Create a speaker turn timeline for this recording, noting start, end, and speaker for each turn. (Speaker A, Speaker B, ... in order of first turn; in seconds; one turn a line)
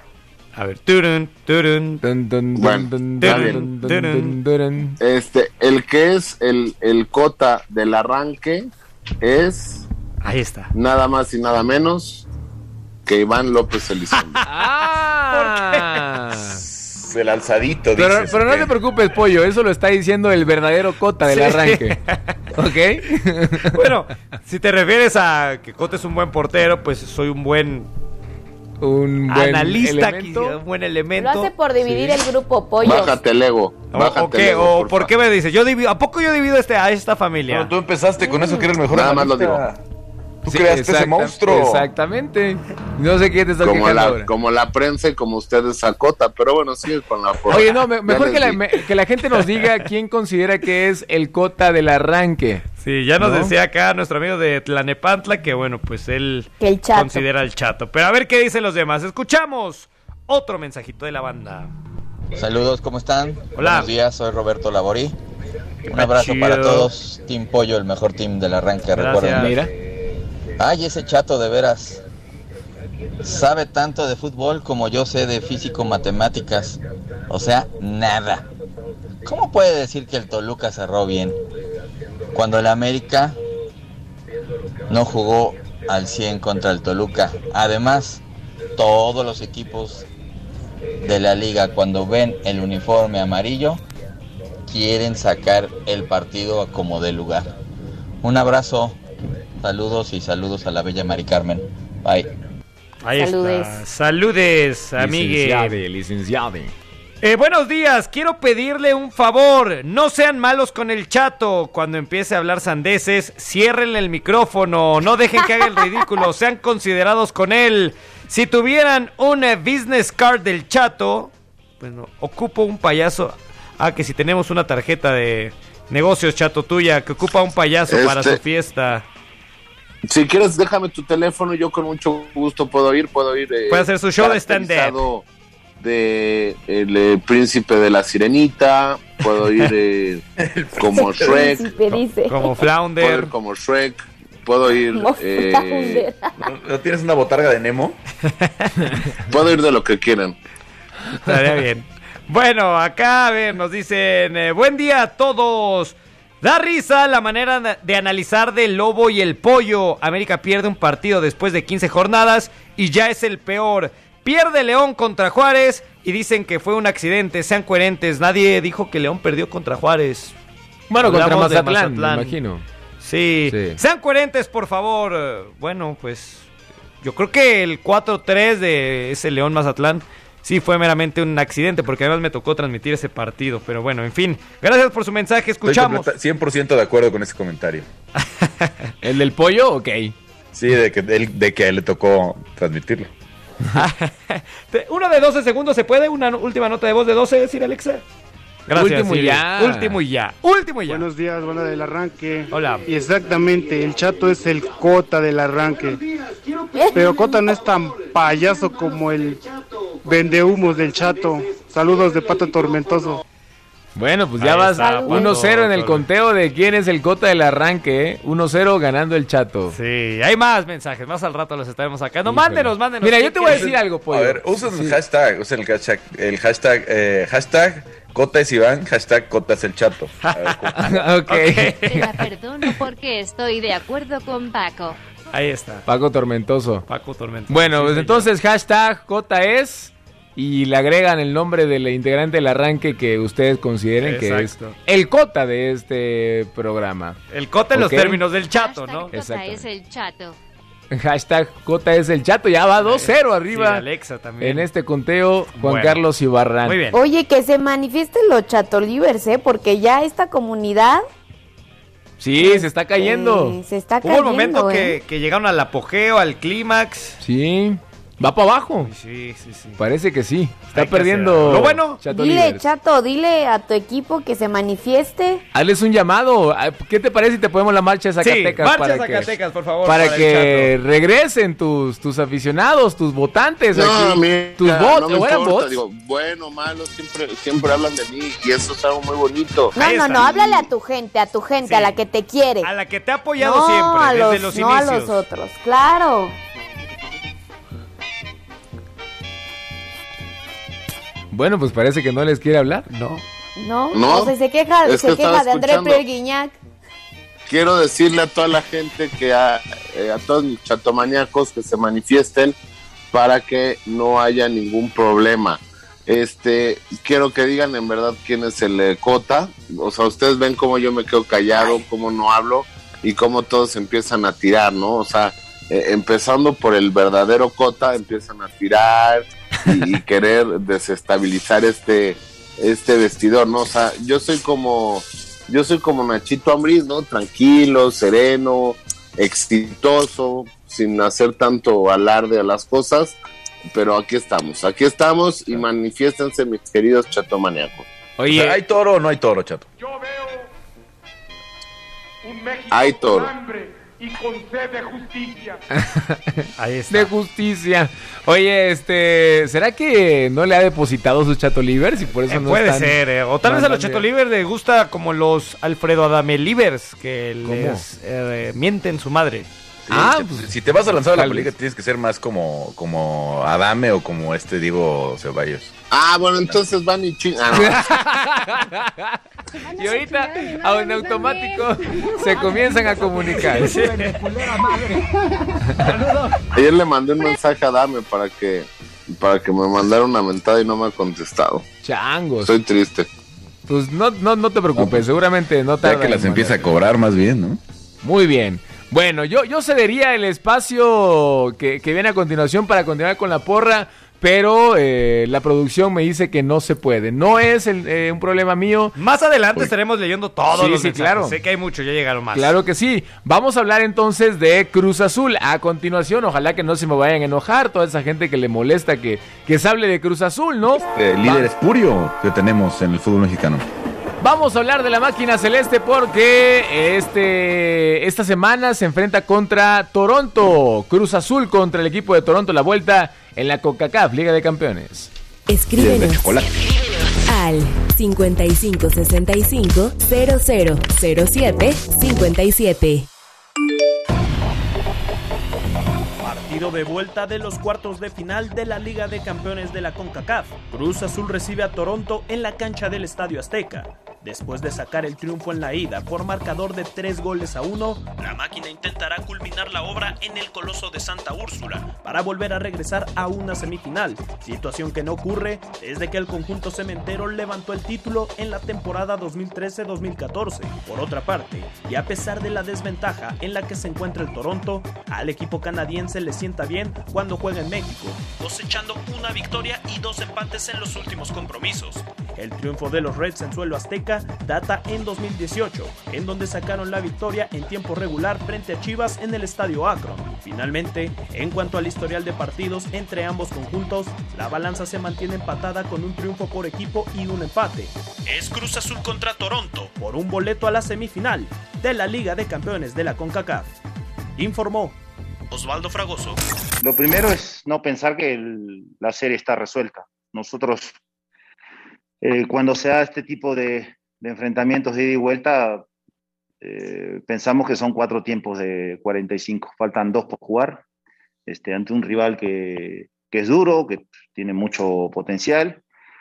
Speaker A: 0.6-2.0
Speaker B: 2.0-5.0
Speaker C: 2.6-3.6
Speaker A: 3.2-4.3
Speaker C: 5.0-8.7
Speaker C: 9.2-9.8
Speaker A: 10.2-10.7
Speaker C: 10.7-12.2
Speaker C: 13.1-14.4
Speaker B: 14.5-16.6
Speaker A: 15.3-16.0
Speaker D: 16.6-18.7
Speaker B: 18.0-22.0
Speaker A: 21.3-22.3
Speaker B: 22.6-23.7
Speaker A: 23.7-27.9
Speaker B: 28.8-30.6
Speaker A: 29.3-31.5
Speaker E: 31.2-33.2
Speaker B: 31.9-32.2
Speaker C: 32.8-35.1
Speaker A: 33.9-37.7
Speaker D: 37.5-39.8
Speaker E: 38.2-38.6
Speaker C: 38.9-39.6
Speaker D: 40.5-41.9
Speaker B: 40.5-44.3
Speaker C: 43.6-48.6
Speaker B: 47.5-52.6
Speaker A: 52.8-61.7
Speaker B: 53.2-53.5
Speaker E: 56.6-57.2
Speaker F: 62.3-65.1
Speaker A: 63.5-63.9
Speaker F: 65.9-69.5
Speaker A: 65.9-66.9
Speaker A: 68.9-69.5
Speaker B: 69.3-69.7
Speaker F: 70.6-72.0
Speaker F: 73.2-78.5
Speaker F: 79.2-81.4
Speaker F: 82.3-83.4
Speaker F: 84.9-88.2
Speaker F: 88.8-90.0
Speaker F: 91.0-93.8
Speaker F: 94.7-97.5
Speaker F: 98.2-99.0
Speaker F: 99.6-102.3
Speaker A: 103.0-105.8
Speaker E: 103.2-103.8
Speaker B: 105.0-106.7
Speaker A: 107.2-129.0
Speaker C: 127.9-128.4
Speaker C: 130.1-135.2
Speaker A: 133.7-135.0
Speaker C: 135.8-140.2
Speaker D: 140.4-141.4
Speaker C: 140.8-141.7
Speaker E: 140.9-142.5
Speaker A: 142.3-143.3
Speaker C: 143.0-146.1
Speaker E: 144.9-146.4
Speaker D: 146.4-148.0
Speaker C: 149.3-150.3
Speaker A: 151.2-170.3
Speaker B: 170.9-172.6
Speaker A: 171.0-172.3
Speaker A: 173.0-176.5
Speaker B: 173.5-173.8
Speaker A: 177.0-186.1
Speaker D: 185.7-187.9
Speaker A: 188.2-188.7
Speaker B: 189.0-190.2
Speaker D: 190.5-193.1
Speaker A: 193.8-198.0
Speaker A: 198.7-201.1
Speaker B: 198.7-200.0
Speaker G: 200.9-206.0
Speaker A: 202.5-202.9
Speaker E: 206.7-207.3
Speaker G: 206.9-209.4
Speaker G: 210.0-213.2
Speaker B: 214.0-219.8
Speaker A: 214.4-216.1
Speaker E: 214.8-215.3
Speaker A: 219.7-223.7
Speaker B: 222.2-225.0
Speaker D: 223.5-230.8
Speaker A: 230.2-230.6
Speaker B: 230.7-232.1
Speaker A: 231.3-232.1
Speaker H: 231.9-235.0
Speaker A: 235.3-235.8
Speaker B: 235.9-236.8
Speaker A: 236.9-238.3
Speaker B: 237.5-247.2
Speaker A: 244.0-244.8
Speaker A: 247.3-249.1
Speaker B: 247.7-248.2
Speaker H: 248.5-250.4
Speaker B: 249.1-249.7
Speaker B: 250.9-253.8
Speaker A: 252.8-254.7
Speaker B: 254.4-256.8
Speaker A: 255.6-256.0
Speaker A: 256.6-257.0
Speaker E: 256.9-261.0
Speaker B: 262.2-263.6
Speaker E: 262.4-265.0
Speaker A: 264.0-267.2
Speaker B: 267.2-268.9
Speaker A: 268.8-269.8
Speaker B: 269.8-272.6
Speaker A: 270.7-272.0
Speaker E: 272.1-275.4
Speaker B: 275.5-279.3
Speaker A: 278.2-280.7
Speaker B: 279.9-285.8
Speaker C: 283.7-290.7
Speaker E: 289.8-292.7
Speaker A: 289.8-290.3
Speaker A: 291.6-292.0
Speaker A: 292.6-295.2
Speaker E: 293.4-296.4
Speaker B: 301.3-302.9
Speaker A: 302.9-303.2
Speaker E: 303.6-306.6
Speaker C: 303.9-304.3
Speaker C: 304.9-306.0
Speaker C: 307.5-312.6
Speaker C: 313.1-343.2
Speaker C: 343.7-347.9
Speaker B: 348.2-348.6
Speaker D: 348.3-349.7
Speaker I: 349.9-350.2
Speaker I: 352.3-352.7
Speaker C: 352.7-353.3
Speaker I: 353.4-355.5
Speaker B: 355.7-364.1
Speaker A: 356.6-357.1
Speaker A: 362.3-369.5
Speaker B: 367.4-367.8
Speaker D: 369.9-375.7
Speaker B: 369.9-370.5
Speaker B: 371.1-371.5
Speaker C: 375.9-377.8
Speaker B: 377.6-379.2
Speaker B: 379.8-383.8
Speaker A: 383.5-384.2
Speaker C: 386.6-391.6
Speaker B: 391.8-392.5
Speaker C: 392.4-393.1
Speaker B: 393.7-396.7
Speaker D: 394.8-395.0
Speaker D: 395.8-397.6
Speaker B: 398.0-408.9
Speaker A: 409.0-412.5
Speaker B: 410.5-411.4
Speaker B: 412.3-421.5
Speaker D: 420.9-423.6
Speaker B: 424.2-435.1
Speaker J: 435.5-436.6
Speaker D: 435.8-436.5
Speaker J: 437.3-443.1
Speaker K: 446.2-503.7
Speaker K: 504.4-505.0
Speaker K: 505.5-506.4
Speaker L: 506.8-510.9
Speaker L: 512.2-515.9
Speaker L: 516.6-520.8
Speaker L: 521.5-525.8